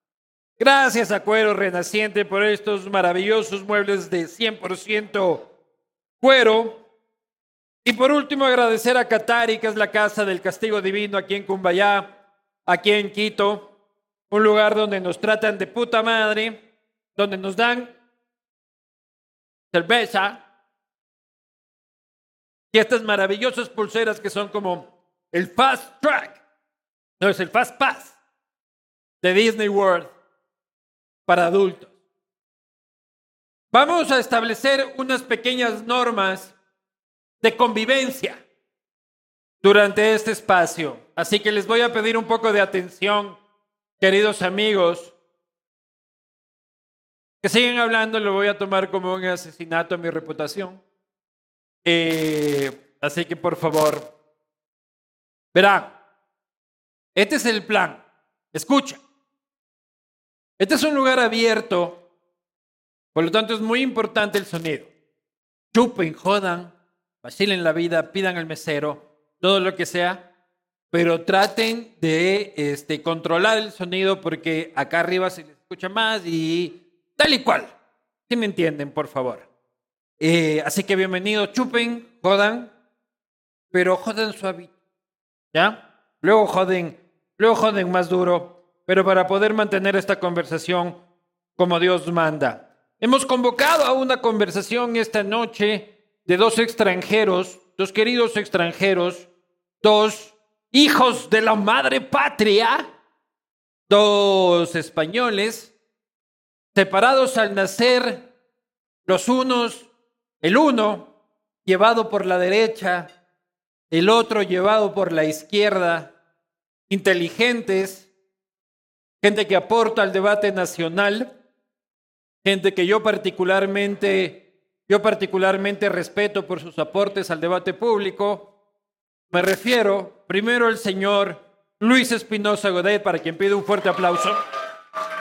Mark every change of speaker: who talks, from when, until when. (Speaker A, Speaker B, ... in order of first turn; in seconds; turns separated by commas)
Speaker A: 0.6-5.5, Speaker A: 6.2-6.8, Speaker A: 7.8-12.1, Speaker A: 12.7-13.7, Speaker A: 14.3-16.6, Speaker A: 17.2-17.9, Speaker A: 19.7-20.4, Speaker A: 22.7-26.4, Speaker A: 27.2-28.2, Speaker A: 29.2-30.1, Speaker A: 31.3-31.9, Speaker A: 33.7-36.5, Speaker A: 37.4-38.4, Speaker A: 39.6-43.4, Speaker A: 44.0-45.1, Speaker A: 47.4-50.8, Speaker A: 51.9-54.1, Speaker A: 55.5-56.0, Speaker A: 57.1-59.0, Speaker A: 60.6-62.0, Speaker A: 63.1-64.9, Speaker A: 65.7-70.3, Speaker A: 70.9-77.7, Speaker A: 78.3-79.5, Speaker A: 80.2-82.7, Speaker A: 83.7-84.7, Speaker A: 85.5-91.0, Speaker A: 91.6-99.3, Speaker A: 99.8-102.9, Speaker A: 103.9-105.7, Speaker A: 106.7-108.3, Speaker A: 109.1-109.9, Speaker A: 110.4-111.1, Speaker A: 111.7-113.1, Speaker A: 113.9-116.1, Speaker A: 116.9-118.1, Speaker A: 119.2-121.4, Speaker A: 122.4-128.5, Speaker A: 129.3-134.4